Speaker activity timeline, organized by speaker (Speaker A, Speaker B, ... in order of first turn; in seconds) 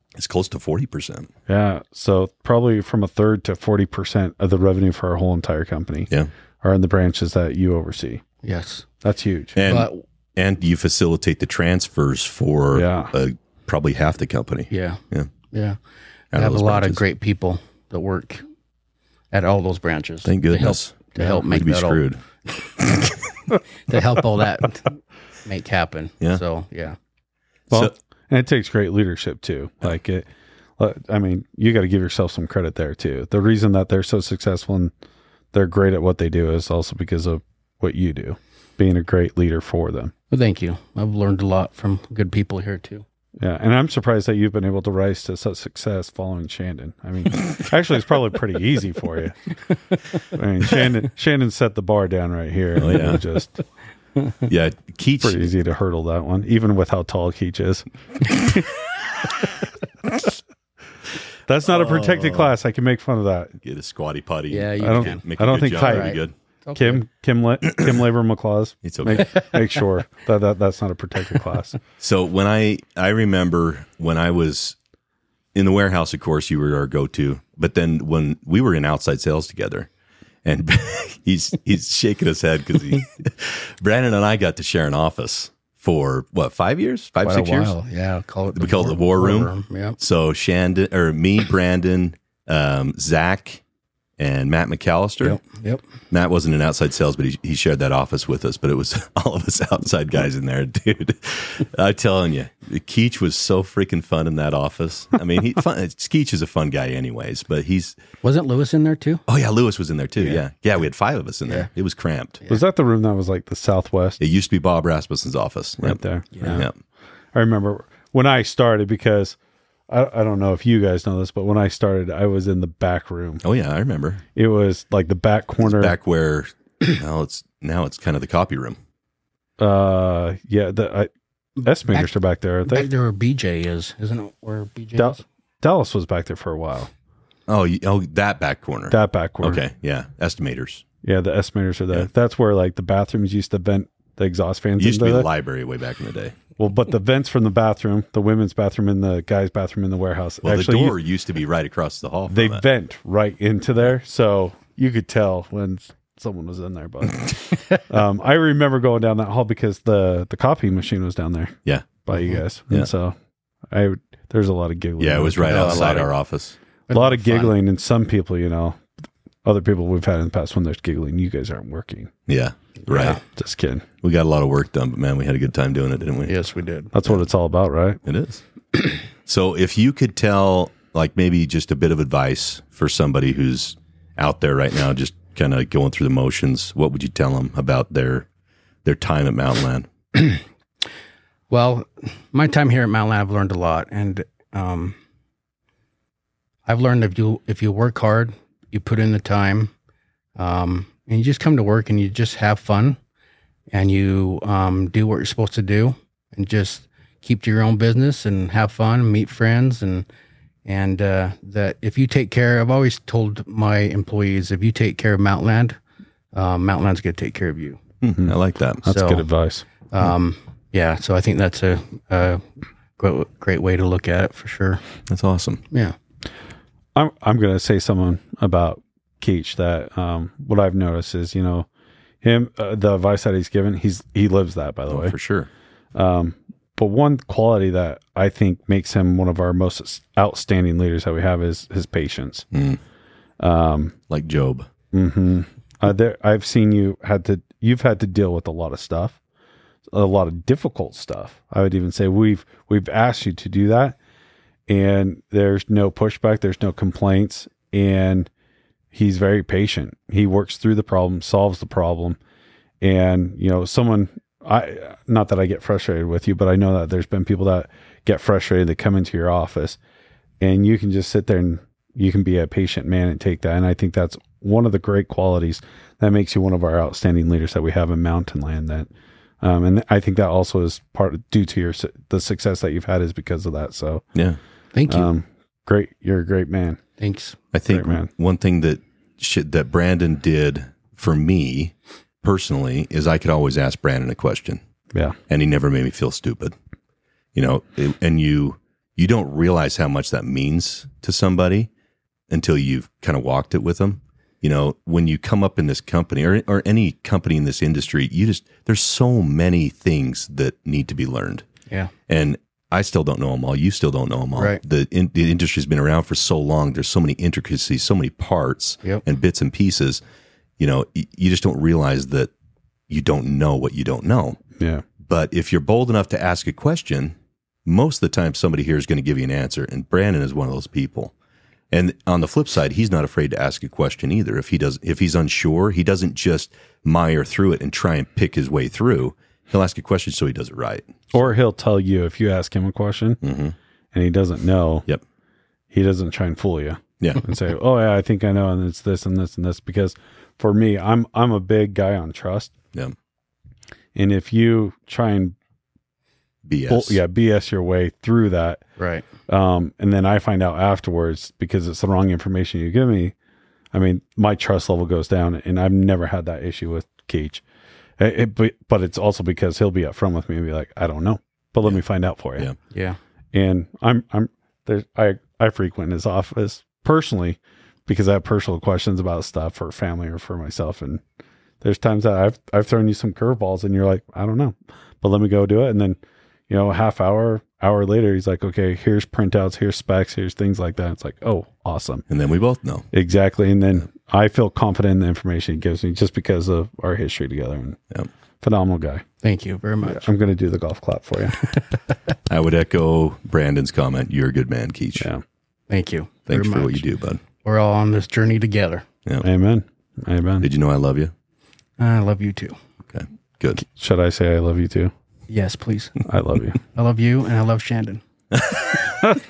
Speaker A: 0.1-1.3, 9.5-15.3, 16.3-17.0, 20.2-22.2, 52.8-53.2, 54.5-55.4, 61.6-62.5, 63.6-66.3, 68.8-69.4, 72.0-74.8, 75.5-79.9, 80.4-87.7, 88.5-93.6, 94.2-95.4, 96.1-108.0, 109.3-112.4, 114.2-116.7, 123.4-124.2, 125.6-128.8, 137.5-140.8, 144.8-146.3, 150.4-152.6, 165.0-166.5, 172.3-173.2, 174.0-176.3, 178.0-178.4, 179.2-188.2, 188.8-189.9, 218.0-218.8, 225.1-225.6, 234.9-235.5, 242.5-242.8, 244.1-244.7, 287.5-294.6, 295.3-296.5, 297.3-301.7, 302.3-311.4, 312.1-320.0, 320.6-322.3, 322.9-324.4, 325.1-327.1, 327.6-331.1, 331.7-341.3, 343.2-343.6, 347.0-347.2, 356.4-357.0, 392.1-392.9, 402.3-405.1, 406.3-407.2, 410.4-411.1, 412.9-413.6, 418.3-418.9
Speaker B: 1.5-6.1, 6.6-8.2, 9.0-9.6, 12.7-13.1, 27.7-30.3, 30.8-34.9, 35.5-40.1, 43.4-49.4, 50.3-53.6, 55.2-58.6, 61.5-63.5, 64.8-66.2, 66.7-71.8, 112.5-114.2, 115.8-116.7, 117.3-119.4, 119.9-123.4, 124.3-125.9, 129.6-131.1, 131.6-132.9, 135.0-136.9, 138.9-139.6, 141.0-145.3, 146.6-151.0, 152.3-163.1, 163.7-166.1, 166.9-168.8, 169.4-172.1, 173.3-173.8, 176.9-178.0, 218.2-219.6, 226.9-231.7, 232.2-235.1, 235.9-242.5, 243.4-243.9, 244.9-249.2, 249.9-254.0, 254.7-258.3, 258.9-262.2, 262.8-269.8, 270.4-278.9, 279.4-284.0, 284.9-286.8, 287.7-288.1, 324.6-324.8, 341.1-343.2, 343.9-344.9, 345.7-352.5, 353.9-355.3, 356.7-358.6, 359.3-363.1, 363.7-367.4, 368.0-372.5, 373.3-381.0, 381.6-386.0, 386.5-392.0, 392.9-397.8, 398.4-399.0, 399.8-401.4, 409.2-410.5, 413.6-414.9, 416.1-416.6
Speaker C: 8.4-8.8, 9.6-10.0, 14.7-15.8, 16.3-18.4, 19.3-22.1, 23.7-27.0, 40.3-43.0, 64.5-65.2, 65.8-67.0, 87.2-90.0, 95.2-95.8, 108.2-109.2, 116.3-116.6, 131.6-132.1, 132.7-135.2, 165.4-166.1, 166.9-167.5, 172.8-173.2, 176.2-176.9, 191.5-194.9, 196.7-199.7, 200.3-203.0, 203.7-210.1, 210.7-215.8, 216.3-217.8, 218.8-219.3, 219.9-222.4, 223.0-224.8, 284.7-285.1, 287.0-287.4, 314.3-314.6, 358.8-359.1, 372.7-373.0, 399.2-400.0, 405.7-406.9, 407.4-408.8, 411.8-412.5, 415.3-416.0, 416.7-418.0